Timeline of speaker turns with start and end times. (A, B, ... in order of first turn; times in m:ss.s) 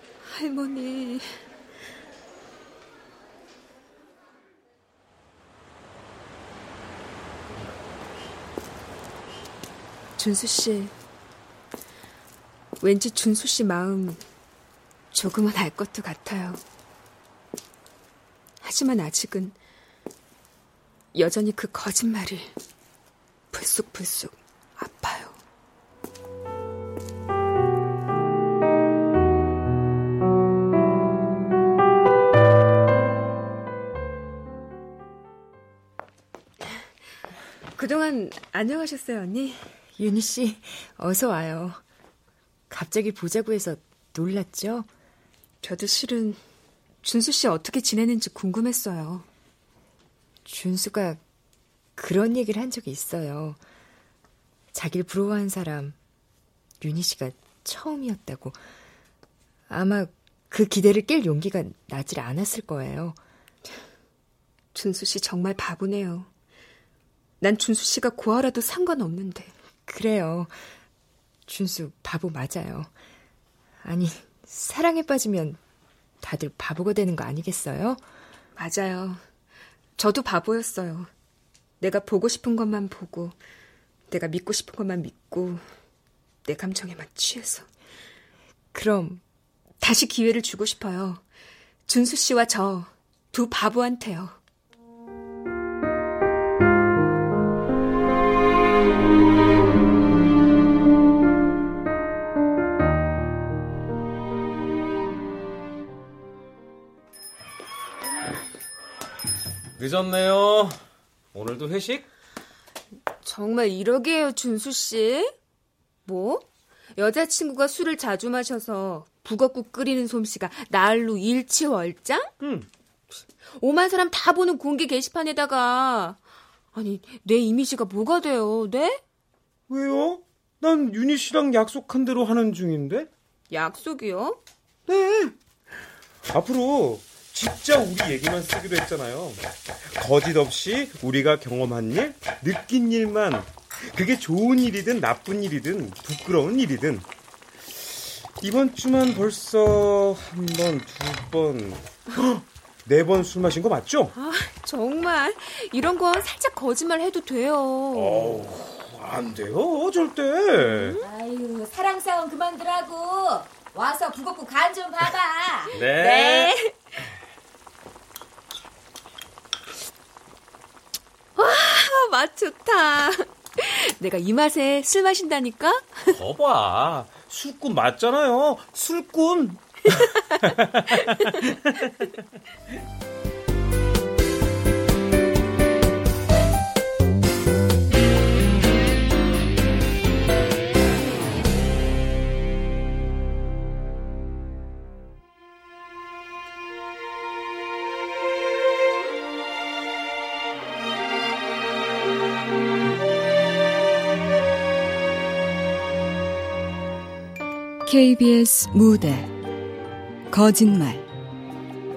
0:00.2-0:01.3 A
0:10.2-0:10.9 A
0:12.8-0:14.2 A
0:15.1-0:16.6 A
0:18.6-0:19.5 A
0:21.1-0:22.5 A
0:23.5-0:25.4 A
0:37.8-0:39.6 A
0:40.0-0:41.8 B
0:42.7-0:44.9 B
0:45.6-0:46.4 A
0:47.0-0:49.2 A
0:50.4-0:51.2 B
0:52.0-0:53.6 B
0:54.7-0:56.0 B
0:56.8-0:58.6 B
0:59.7-1:03.2 B
1:04.7-1:06.3 A
1:07.4-1:09.5 A
1:09.9-1:10.6 B
1:11.5-1:12.9 B
1:13.8-1:15.6 B
1:16.2-1:18.0 B
1:18.6-1:19.2 A
1:20.0-1:21.1 A
1:21.8-1:23.3 A
1:24.1-1:25.6 A
1:26.4-1:27.6 A
1:28.7-1:29.2 B
1:29.8-1:31.2 A
1:31.9-1:34.4 A
1:49.8-1:50.8 C
1:51.3-1:52.1 C
1:53.2-1:55.3 A
1:56.0-2:02.3 A
2:02.4-2:02.7 C
2:03.6-2:06.2 A
2:06.7-2:09.0 A
2:09.7-2:13.1 C
2:13.5-2:14.4 A
2:14.9-2:15.3 C
2:16.3-2:19.4 C
2:20.0-2:27.0 C
2:28.4-2:34.1 C
2:34.1-2:38.4 A
2:37.9-2:41.0 C
2:40.6-2:41.0 A
2:41.0-2:46.3 D
2:45.7-2:46.5 C
2:45.9-2:46.7 A
2:51.4-2:56.1 A
2:56.1-3:02.1 C
3:27.8-3:29.3 E
3:30.3-3:31.0 E